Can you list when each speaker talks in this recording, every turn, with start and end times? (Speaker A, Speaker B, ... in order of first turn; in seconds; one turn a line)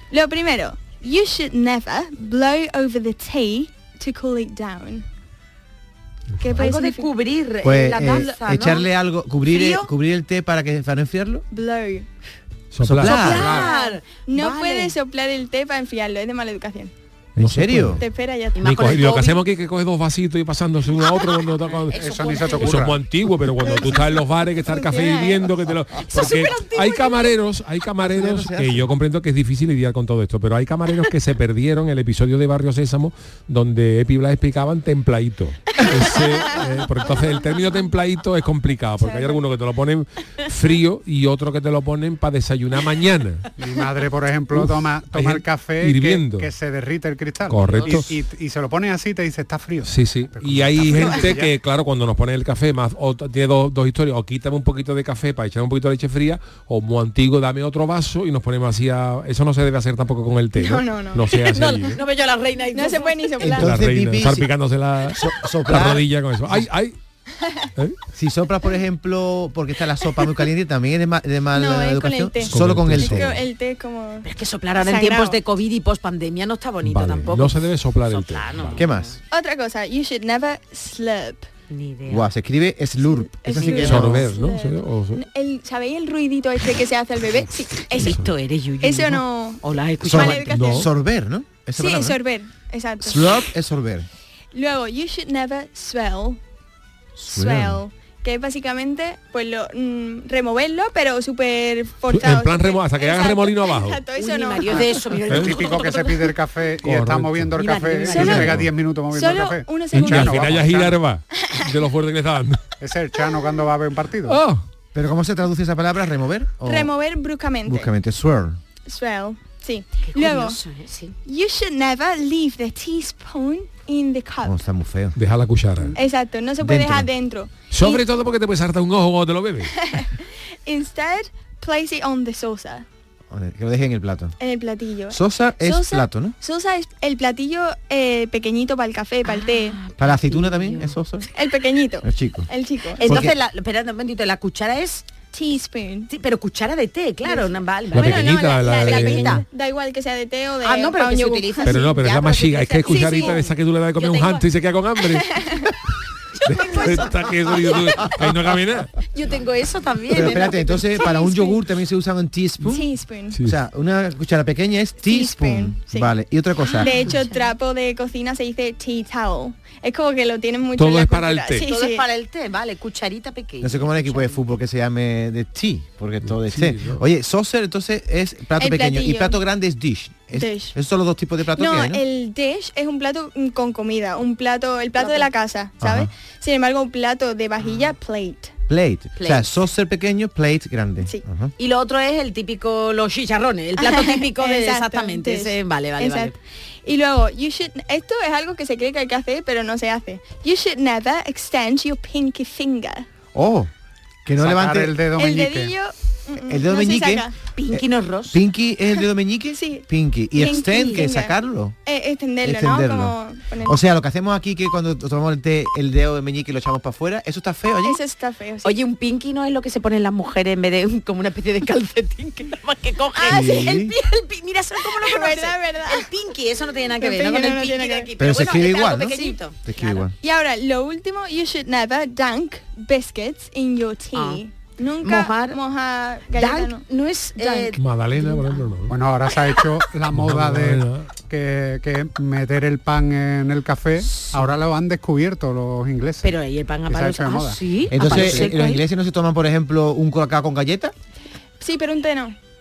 Speaker A: 0.1-5.1
Speaker A: 6.4-7.1
Speaker B: 6.5-8.9
Speaker C: 7.6-11.4
Speaker A: 8.0-8.8
Speaker B: 9.5-9.8
Speaker A: 9.5-9.8
Speaker A: 11.5-12.1
Speaker D: 12.7-13.4
Speaker C: 12.8-13.5
Speaker B: 13.0-14.9
Speaker A: 13.2-16.9
Speaker E: 13.3-13.7
Speaker C: 17.4-18.0
Speaker D: 17.4-18.0
Speaker A: 18.0-19.1
Speaker B: 18.5-19.4
Speaker D: 18.6-43.5
Speaker B: 21.6-22.9
Speaker E: 21.9-23.0
Speaker A: 23.6-25.6
Speaker B: 26.1-27.4
Speaker C: 28.0-28.9
Speaker A: 39.0-39.4
Speaker E: 43.6-51.6
Speaker D: 44.5-46.5
Speaker D: 47.5-48.1
Speaker B: 47.6-48.0
Speaker D: 49.8-62.0
Speaker B: 50.9-51.1
Speaker A: 60.5-61.7
Speaker B: 61.4-63.6
Speaker A: 62.7-63.7
Speaker C: 63.4-64.5
Speaker D: 63.6-67.0
Speaker C: 65.1-66.1
Speaker C: 68.1-73.3
Speaker A: 71.5-74.3
Speaker D: 72.5-73.4
Speaker B: 74.2-79.2
Speaker A: 74.8-75.4
Speaker D: 76.8-78.8
Speaker C: 78.8-79.1
Speaker A: 79.3-81.5
Speaker B: 81.7-82.3
Speaker C: 82.1-84.3
Speaker A: 83.0-88.3
Speaker D: 83.6-85.2
Speaker B: 87.9-90.6
Speaker A: 88.8-90.8
Speaker C: 90.1-92.2
Speaker D: 90.4-90.9
Speaker A: 91.8-93.5
Speaker C: 93.0-94.1
Speaker A: 94.5-96.4
Speaker A: 97.2-105.1
Speaker C: 97.3-97.8
Speaker D: 102.1-104.0
Speaker B: 104.2-106.3
Speaker E: 104.8-111.0
Speaker D: 105.3-105.6
Speaker D: 106.8-107.5
Speaker B: 107.6-108.6
Speaker A: 108.1-108.4
Speaker D: 108.1-108.7
Speaker A: 109.1-110.6
Speaker D: 109.9-112.6
Speaker A: 111.3-111.6
Speaker E: 112.8-114.4
Speaker D: 114.3-114.6
Speaker C: 114.9-116.9
Speaker A: 116.6-117.9
Speaker C: 117.6-118.6
Speaker A: 118.8-120.6
Speaker B: 120.1-121.2
Speaker A: 121.2-124.6
Speaker C: 124.4-125.2
Speaker D: 125.2-125.9
Speaker A: 125.9-128.0
Speaker C: 126.6-127.1
Speaker D: 127.7-129.7
Speaker A: 129.7-132.9
Speaker C: 133.3-134.4
Speaker A: 134.4-139.8
Speaker C: 135.1-136.4
Speaker B: 139.3-141.0
Speaker C: 140.0-141.3
Speaker A: 141.3-143.3
Speaker C: 142.0-142.5
Speaker B: 143.0-145.1
Speaker C: 143.1-143.4
Speaker A: 145.3-146.1
Speaker B: 146.1-149.4
Speaker A: 147.2-152.0
Speaker D: 147.9-149.4
Speaker B: 150.6-154.4
Speaker D: 151.6-155.4
Speaker A: 152.8-153.5
Speaker A: 155.1-155.6
Speaker B: 156.3-158.1
Speaker D: 156.5-158.9
Speaker A: 156.7-156.9
Speaker B: 159.1-161.2
Speaker C: 160.1-162.9
Speaker A: 160.8-161.6
Speaker A: 162.6-163.4
Speaker C: 163.4-167.0
Speaker A: 165.0-166.1
Speaker B: 166.7-167.3
Speaker A: 166.7-172.1
Speaker D: 170.8-171.7
Speaker B: 171.6-174.4
Speaker C: 173.6-182.0
Speaker D: 176.2-177.0
Speaker A: 178.6-179.4
Speaker A: 180.3-180.8
Speaker A: 181.6-188.5
Speaker B: 185.0-185.3
Speaker C: 185.8-186.1
Speaker B: 187.6-187.9
Speaker C: 188.7-191.5
Speaker B: 189.2-189.6
Speaker B: 191.6-196.4
Speaker A: 193.8-203.1
Speaker C: 203.3-203.7
Speaker C: 204.2-205.0
Speaker E: 204.4-205.7
Speaker A: 205.1-207.3
Speaker C: 206.4-211.8
Speaker B: 207.6-208.4
Speaker A: 209.5-213.8
Speaker B: 210.5-211.1
Speaker C: 212.4-218.0
Speaker A: 217.8-218.8
Speaker B: 218.6-230.0
Speaker A: 223.1-223.8
Speaker C: 223.3-223.9
Speaker A: 224.9-226.1
Speaker A: 227.0-228.1
Speaker C: 228.2-230.1
Speaker A: 229.1-229.4
Speaker A: 230.2-237.8
Speaker B: 234.1-234.4
Speaker B: 235.0-235.6
Speaker B: 236.3-237.8
Speaker D: 237.8-238.9
Speaker E: 238.9-246.3
Speaker D: 240.1-241.1
Speaker B: 244.0-244.5
Speaker B: 246.2-248.8
Speaker E: 246.9-247.6
Speaker C: 247.9-250.9
Speaker A: 251.6-252.4